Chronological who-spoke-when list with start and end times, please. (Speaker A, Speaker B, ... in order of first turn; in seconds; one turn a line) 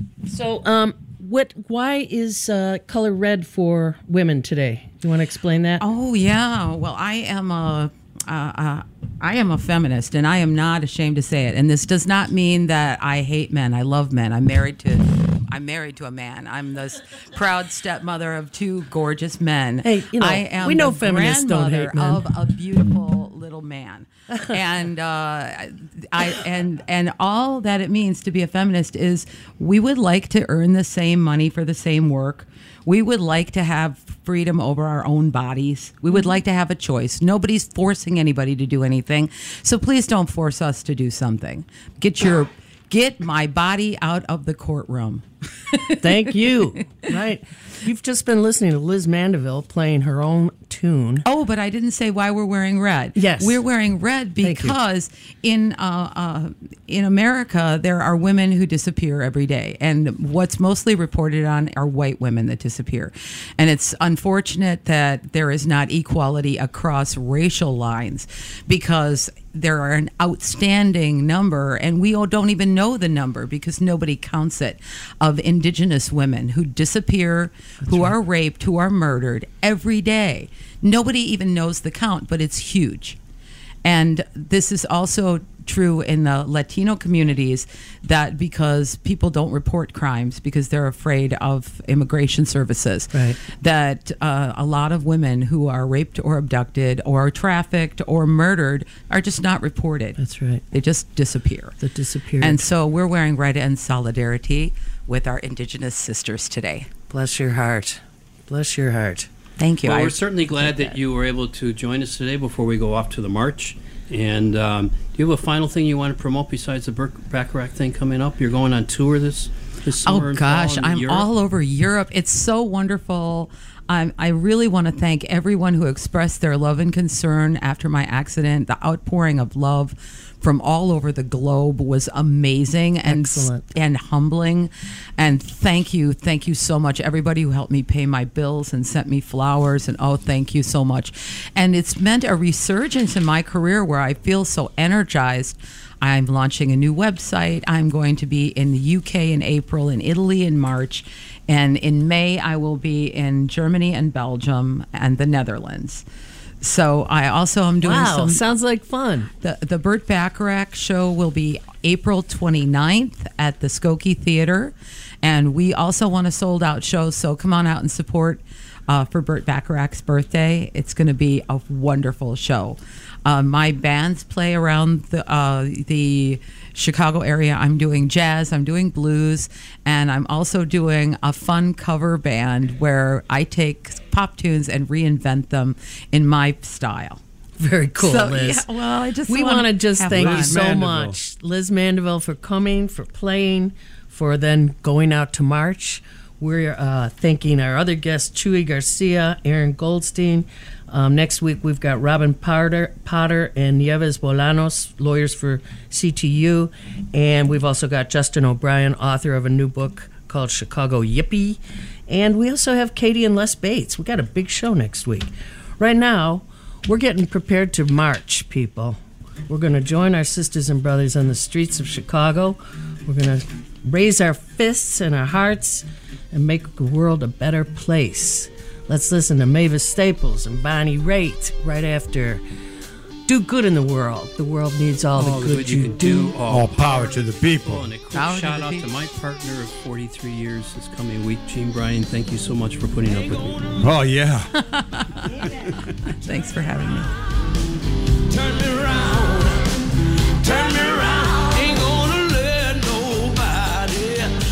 Speaker A: 0.2-5.8
Speaker B: 5.8-46.0
Speaker A: 19.8-22.3
Speaker A: 46.0-51.2
Speaker B: 51.2-83.2
Speaker A: 53.2-53.6
Speaker A: 54.4-54.8
Speaker A: 77.8-78.1
Speaker B: 83.8-100.2
Speaker A: 93.1-93.4
Speaker A: 100.2-100.6
Speaker B: 100.7-101.8
Speaker A: 101.8-102.6
Speaker B: 102.4-106.9
Speaker A: 107.1-109.3
Speaker B: 109.6-110.2
Speaker C: 109.8-121.3
Speaker A: 110.5-110.9
Speaker B: 120.0-156.0
Speaker A: 133.1-133.6
Speaker B: 156.6-158.4
Speaker A: 157.8-159.3
Speaker B: 159.4-187.2
Speaker A: 187.6-188.7
Speaker B: 188.0-190.6
Speaker A: 189.3-232.4
Speaker D: 190.1-191.2
Speaker A: 233.3-236.4
Speaker C: 235.2-243.8
Speaker D: 236.5-237.8
Speaker B: 238.1-238.9
Speaker D: 243.8-244.5
Speaker B: 244.6-247.1
Speaker C: 248.4-249.4
Speaker C: 250.4-254.1